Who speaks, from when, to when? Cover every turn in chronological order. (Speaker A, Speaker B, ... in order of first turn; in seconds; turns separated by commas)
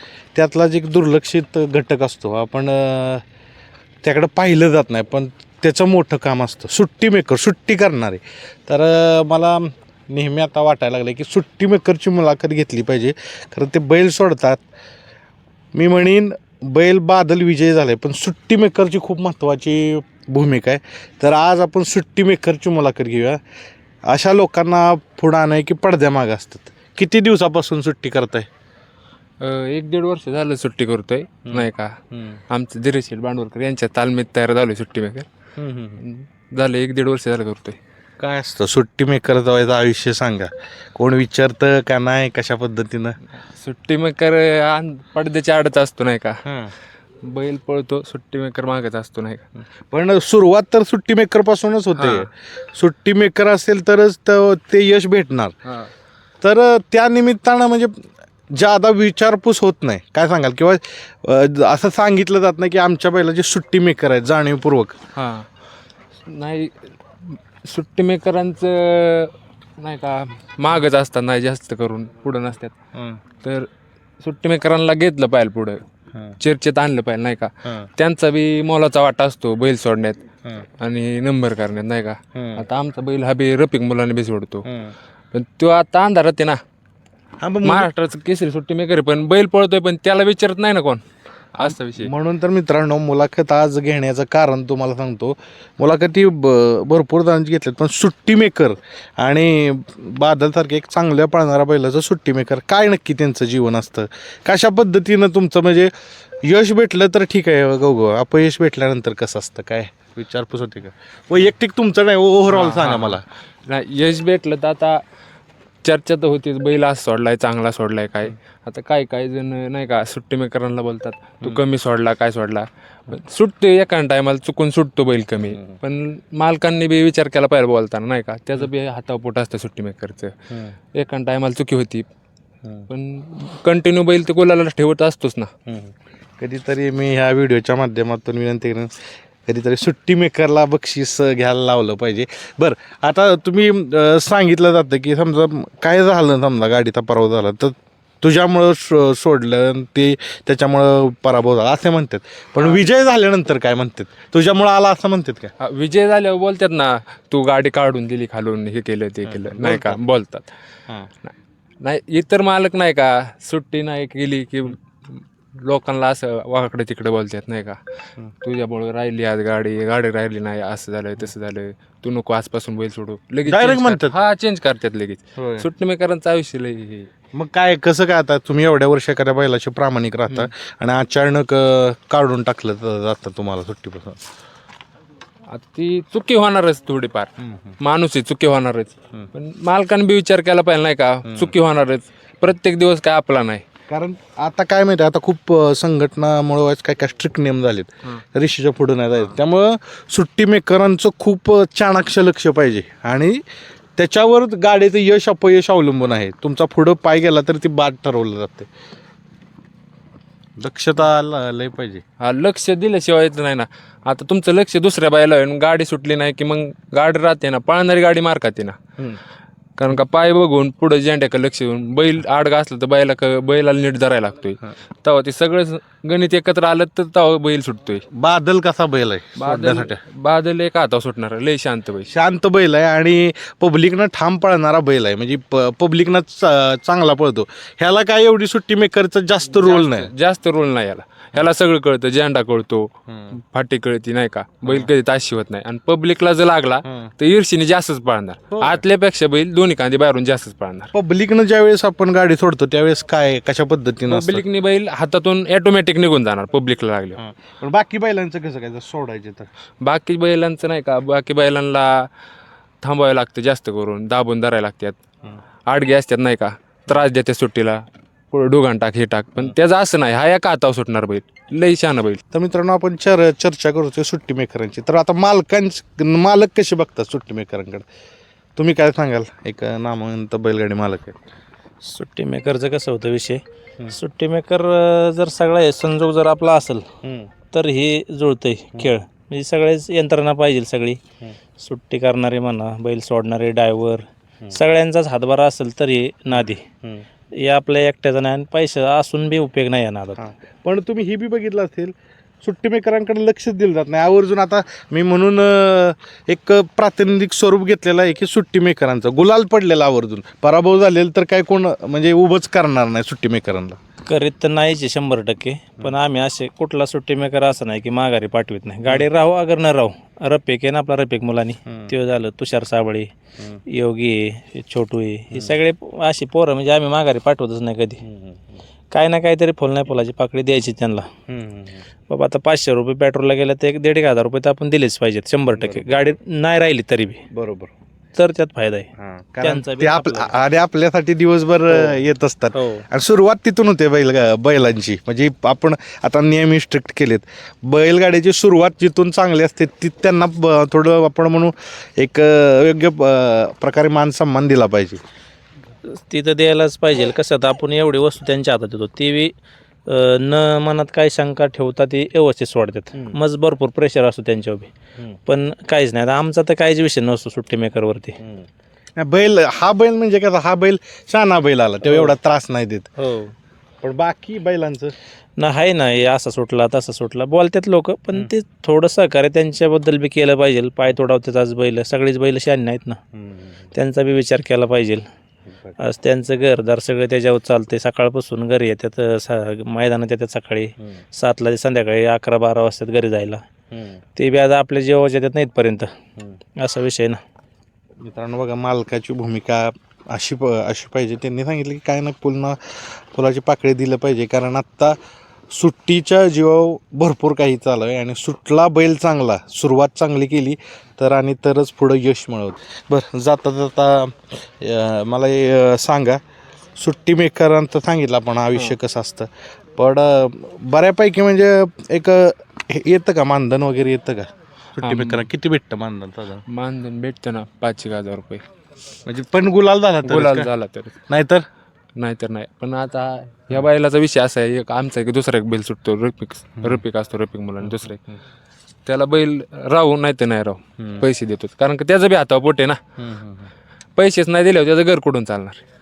Speaker A: 0.3-3.2, Speaker A: 4.0-14.6, Speaker A: 15.7-23.4, Speaker A: 24.1-28.5, Speaker B: 29.4-31.9, Speaker A: 31.4-32.4, Speaker B: 32.5-35.2, Speaker A: 35.6-36.0, Speaker B: 36.0-37.8, Speaker A: 38.2-43.2, Speaker B: 43.4-46.4, Speaker A: 46.4-46.7, Speaker B: 47.2-49.4, Speaker A: 49.9-55.5, Speaker B: 52.0-52.3, Speaker A: 56.4-65.0, Speaker B: 65.2-65.5, Speaker B: 66.3-72.7, Speaker A: 72.9-73.2, Speaker B: 73.4-73.7, Speaker B: 74.2-75.8, Speaker B: 76.4-80.2, Speaker B: 80.8-84.6, Speaker A: 82.3-82.6, Speaker A: 84.6-84.9, Speaker B: 85.3-86.6, Speaker A: 87.4-87.9, Speaker B: 87.6-91.0, Speaker B: 91.5-92.1, Speaker A: 91.6-105.9, Speaker A: 106.4-113.2, Speaker B: 112.5-115.0, Speaker B: 115.8-130.3, Speaker A: 125.5-125.8, Speaker B: 130.9-132.1, Speaker B: 132.9-135.5, Speaker A: 135.7-155.5, Speaker B: 155.6-160.5, Speaker A: 159.2-160.0, Speaker B: 161.2-167.8, Speaker B: 168.4-177.1, Speaker A: 173.4-174.2, Speaker A: 175.4-175.7, Speaker A: 177.3-184.2, Speaker B: 185.5-193.6, Speaker A: 187.4-187.8, Speaker A: 191.2-191.5, Speaker A: 193.9-203.4, Speaker A: 204.0-208.7, Speaker A: 210.6-212.0, Speaker B: 212.2-218.8, Speaker B: 219.8-228.1, Speaker A: 228.1-230.0, Speaker B: 229.4-232.1, Speaker A: 232.1-240.1, Speaker B: 239.5-250.9, Speaker A: 243.1-243.3, Speaker A: 244.6-244.9, Speaker A: 246.8-247.1, Speaker A: 248.5-248.8, Speaker A: 250.9-254.4, Speaker B: 254.1-257.2, Speaker A: 257.2-259.5, Speaker B: 259.8-262.1, Speaker B: 262.8-265.0, Speaker B: 265.7-272.2, Speaker A: 272.3-277.8, Speaker A: 278.6-281.2, Speaker C: 281.8-286.9, Speaker A: 287.0-287.3, Speaker C: 287.5-291.0, Speaker C: 291.6-296.6, Speaker A: 296.3-297.0, Speaker C: 297.4-300.2, Speaker A: 300.1-313.8, Speaker C: 314.1-323.1, Speaker C: 323.7-328.0, Speaker A: 328.0-328.6, Speaker C: 328.9-331.1, Speaker A: 331.3-331.9, Speaker C: 332.1-337.2, Speaker A: 335.6-336.1, Speaker A: 337.3-337.7, Speaker C: 338.1-338.9, Speaker A: 339.0-355.0, Speaker C: 339.4-340.4, Speaker C: 341.7-342.0, Speaker C: 342.5-342.9, Speaker C: 355.9-359.3, Speaker C: 359.9-364.7, Speaker C: 365.2-368.2, Speaker A: 369.0-372.9, Speaker C: 371.9-372.1, Speaker C: 373.0-373.3, Speaker A: 373.8-374.9, Speaker C: 375.4-383.0, Speaker A: 383.1-383.7, Speaker C: 383.7-385.0, Speaker A: 385.5-385.8, Speaker C: 385.8-393.4, Speaker A: 393.7-394.0, Speaker C: 394.1-395.9, Speaker C: 396.6-397.2, Speaker A: 398.0-405.0, Speaker A: 405.5-416.2, Speaker A: 416.8-426.4, Speaker B: 424.8-425.3, Speaker B: 426.5-428.4, Speaker A: 429.1-430.5, Speaker B: 430.0-430.9, Speaker A: 431.1-431.4, Speaker B: 431.9-438.0, Speaker A: 436.6-436.8, Speaker A: 437.6-438.1, Speaker B: 438.9-442.8, Speaker A: 440.8-441.0, Speaker A: 443.0-443.5, Speaker B: 444.0-445.6